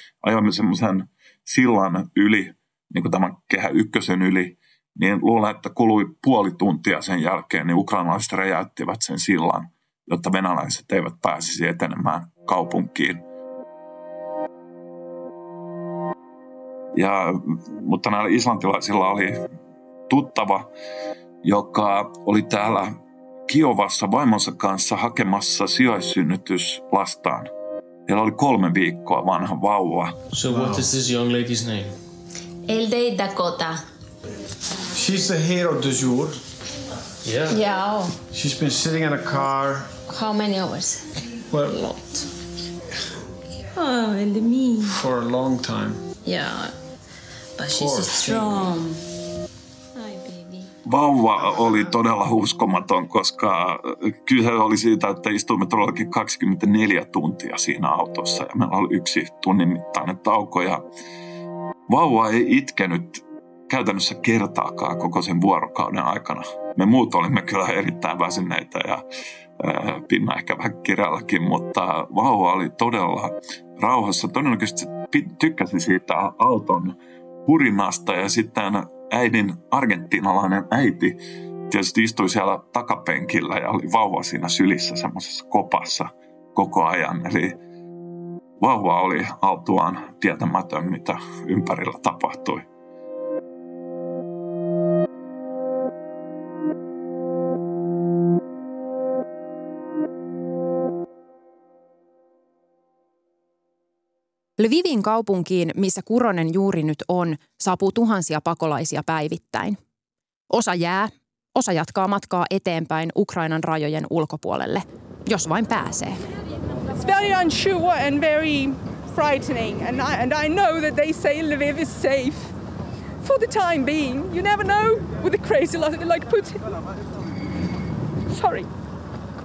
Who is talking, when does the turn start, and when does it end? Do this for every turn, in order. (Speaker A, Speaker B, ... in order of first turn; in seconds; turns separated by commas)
Speaker A: 0.2-13.2, Speaker A: 16.9-19.4, Speaker A: 20.1-20.7, Speaker A: 21.4-22.9, Speaker A: 23.5-27.5, Speaker A: 28.1-30.1, Speaker B: 30.3-32.0, Speaker C: 32.7-33.8, Speaker D: 35.0-36.4, Speaker B: 37.2-37.5, Speaker C: 37.5-38.2, Speaker D: 38.3-39.9, Speaker C: 40.1-41.0, Speaker C: 41.6-42.3, Speaker C: 43.7-45.0, Speaker D: 45.0-46.0, Speaker C: 46.2-46.7, Speaker C: 47.6-49.0, Speaker D: 47.7-48.4, Speaker C: 50.0-50.7, Speaker A: 50.8-60.8, Speaker A: 61.9-69.0, Speaker A: 69.6-87.6, Speaker A: 88.6-92.7, Speaker E: 104.6-109.8, Speaker E: 110.5-116.2, Speaker F: 116.9-122.5, Speaker F: 123.2-126.7, Speaker F: 128.3-128.7